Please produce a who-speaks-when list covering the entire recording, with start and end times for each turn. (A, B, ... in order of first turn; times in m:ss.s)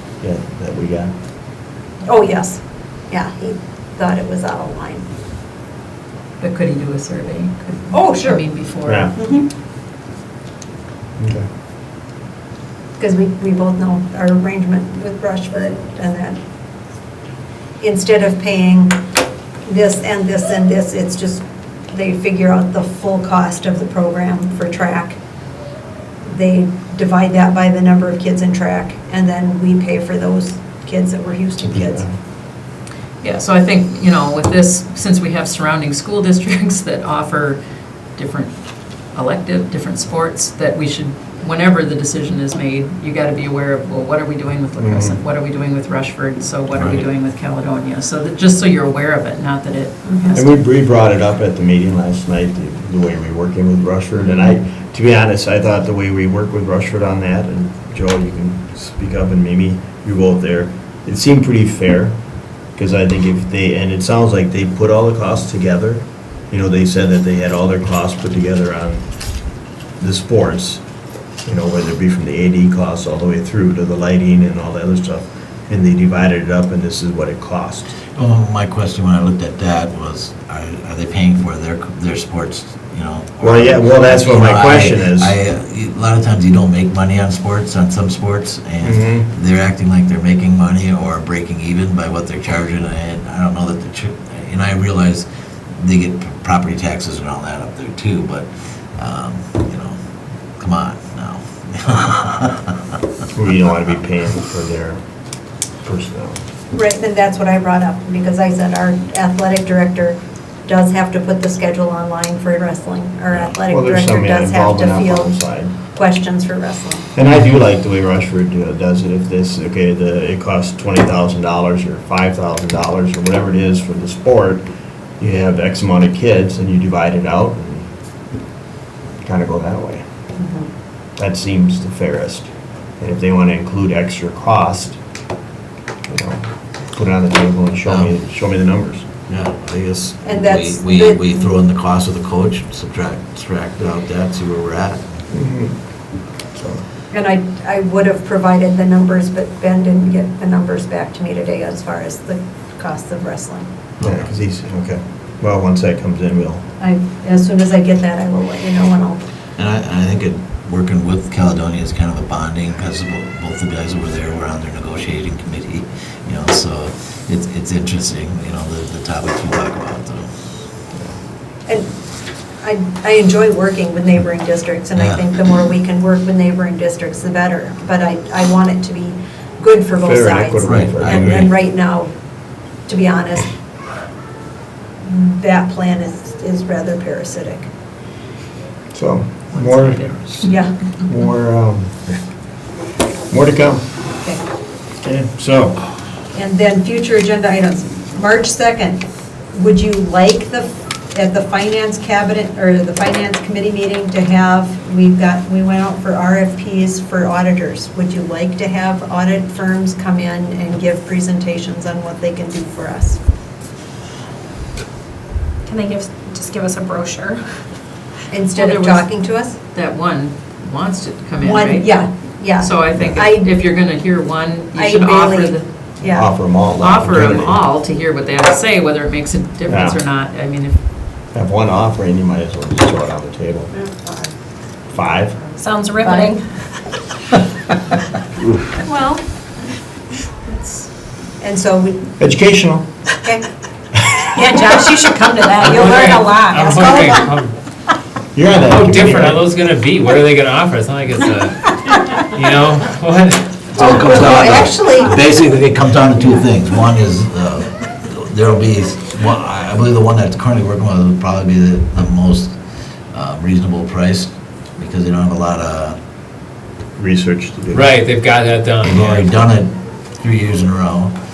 0:00.2-0:01.1 A
0:02.0-0:05.1 B
0:06.4-0:09.2 C
0:07.9-0:08.4 B
0:08.8-0:09.2 A
0:09.2-0:09.5 B
0:11.2-0:11.5 A
0:13.0-0:16.4 B
0:17.8-0:19.0 B
0:19.7-0:25.2 B
0:26.3-0:32.0 B
0:31.6-0:32.1 A
0:33.2-0:37.6 C
0:38.2-0:38.6 C
0:39.1-0:50.5 C
0:44.8-0:45.2 A
0:46.7-0:47.1 D
0:50.3-1:02.2 A
1:02.8-1:09.1 A
1:10.0-1:10.8 A
1:11.4-1:18.0 A
1:18.2-1:40.0 D
1:23.4-1:25.4 A
1:28.8-1:29.3 A
1:40.6-1:42.8 D
1:43.3-1:45.0 A
1:45.8-1:46.4 A
1:46.7-1:55.4 B
1:53.3-1:55.8 A
1:55.9-1:57.1 B
1:57.2-2:04.7 A
2:05.2-2:07.9 A
2:09.2-2:10.0 A
2:10.4-2:10.7 B
2:11.2-2:15.0 A
2:16.1-2:19.2 A
2:17.9-2:18.1 D
2:19.3-2:25.0 D
2:20.2-2:21.5 B
2:25.3-2:25.8 A
2:26.6-2:26.8 A
2:27.1-2:33.7 B
2:34.0-2:36.6 A
2:36.8-2:39.2 B
2:39.6-2:50.3 D
2:51.7-2:51.9 B
2:52.6-3:02.1 B
2:55.0-2:55.3 D
3:00.0-3:01.5 A
3:00.6-3:01.4 D
3:02.9-3:03.5 B
3:05.0-3:07.7 B
3:08.9-3:10.5 A
3:10.4-3:10.8 B
3:11.0-3:12.0 A
3:13.3-3:13.8 A
3:15.0-3:15.8 A
3:16.3-3:19.0 B
3:19.5-3:33.2 B
3:35.7-3:37.4 E
3:38.3-3:39.6 B
3:38.6-3:39.1 C
3:39.7-3:42.0 C
3:41.4-3:43.5 B
3:42.6-3:45.7 C
3:44.8-3:46.3 B
3:46.0-3:47.6 A
3:46.8-3:50.8 C
3:49.7-3:50.0 A
3:51.3-3:53.7 A
3:53.7-3:54.3 B
3:54.9-3:55.4 A
3:55.6-3:56.4 E
3:56.0-3:56.4 B
3:58.9-3:59.2 B
4:01.4-4:02.0 B
4:02.2-4:02.9 A
4:04.3-4:07.1 E
4:05.6-4:07.6 F
4:05.6-4:07.3 B
4:08.4-4:09.4 A
4:08.4-4:13.9 F
4:13.8-4:22.6 D
4:13.8-4:15.2 B
4:23.1-4:26.0 D
4:27.0-4:27.9 A
4:27.7-4:29.3 F
4:28.8-4:31.2 D